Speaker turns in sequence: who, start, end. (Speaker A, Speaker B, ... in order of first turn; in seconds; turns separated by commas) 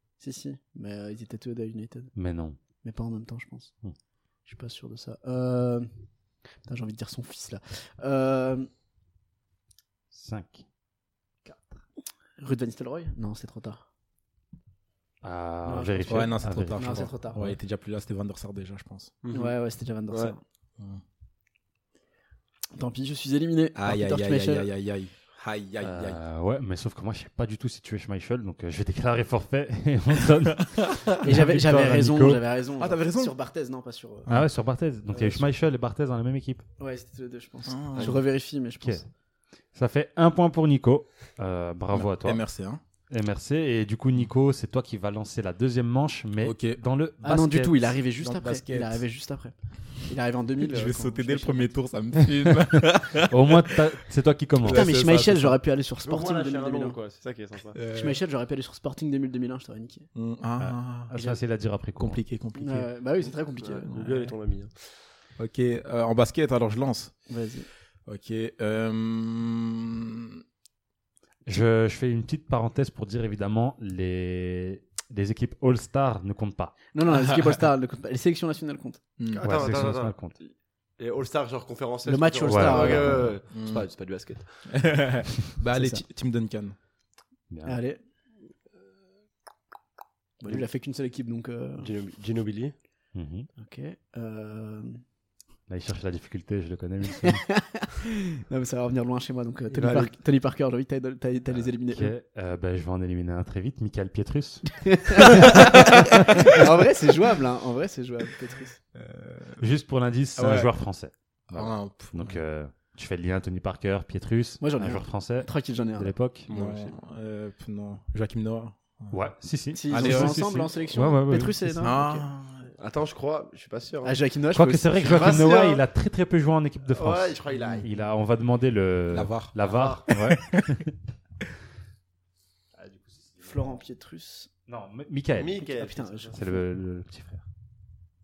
Speaker A: 0.2-2.1, Speaker B: 2.1-2.6, Speaker A: 2.8-3.7, Speaker A: 4.5-5.9, Speaker A: 6.6-8.7, Speaker B: 10.1-10.6, Speaker B: 11.5-11.8, Speaker A: 12.4-13.8, Speaker B: 15.2-17.1, Speaker A: 15.6-17.5, Speaker C: 16.1-19.1, Speaker D: 19.2-19.6, Speaker A: 19.3-20.4, Speaker A: 22.7-24.7, Speaker C: 23.7-26.2, Speaker B: 25.8-32.4, Speaker C: 30.6-31.1, Speaker A: 31.2-34.3, Speaker C: 32.8-33.4, Speaker C: 34.3-34.5, Speaker B: 34.3-36.6, Speaker A: 35.1-35.5, Speaker A: 36.8-39.0, Speaker C: 37.7-38.2, Speaker B: 39.7-42.5, Speaker C: 41.9-42.8, Speaker B: 43.1-47.9, Speaker C: 46.4-46.8, Speaker A: 47.2-51.7, Speaker C: 48.2-49.0, Speaker C: 50.6-53.8, Speaker B: 53.3-54.9, Speaker C: 54.6-55.6, Speaker A: 54.7-57.0, Speaker D: 56.0-57.8, Speaker C: 57.7-58.2, Speaker A: 57.9-60.1, Speaker C: 60.1-61.1, Speaker B: 60.6-62.2, Speaker A: 61.1-61.4, Speaker C: 62.0-62.9, Speaker A: 62.6-64.3, Speaker D: 63.6-64.7, Speaker C: 65.4-67.1, Speaker A: 67.3-67.7, Speaker C: 68.1-70.4, Speaker B: 71.5-76.8, Speaker A: 76.9-79.0, Speaker C: 79.2-79.5, Speaker D: 79.3-84.7, Speaker B: 79.4-80.4, Speaker A: 82.1-83.3, Speaker B: 82.5-83.4, Speaker C: 83.5-83.9, Speaker C: 84.7-86.8, Speaker A: 85.7-86.0, Speaker B: 87.5-87.8, Speaker A: 87.6-88.0, Speaker A: 90.4-91.9, Speaker D: 91.8-92.7, Speaker B: 93.1-93.5, Speaker A: 93.6-95.0, Speaker B: 95.7-97.4, Speaker A: 97.4-102.1, Speaker D: 99.7-100.1, Speaker B: 101.5-106.6, Speaker A: 104.8-108.8, Speaker C: 109.0-109.7, Speaker B: 109.6-116.5, Speaker C: 110.4-110.7, Speaker C: 111.5-112.4, Speaker A: 114.6-116.1, Speaker D: 116.5-116.8, Speaker C: 116.5-119.3, Speaker B: 119.1-122.0, Speaker A: 119.7-122.3, Speaker C: 119.9-120.7, Speaker C: 121.8-122.7, Speaker D: 122.8-124.2, Speaker A: 124.0-125.4, Speaker B: 124.5-130.9, Speaker D: 125.1-125.8, Speaker D: 126.9-127.9, Speaker C: 129.1-129.5, Speaker D: 129.6-130.0, Speaker C: 130.1-130.8, Speaker B: 132.8-133.7, Speaker A: 133.4-134.5, Speaker B: 134.7-135.6, Speaker D: 135.3-136.6, Speaker A: 135.6-136.6, Speaker B: 136.3-137.4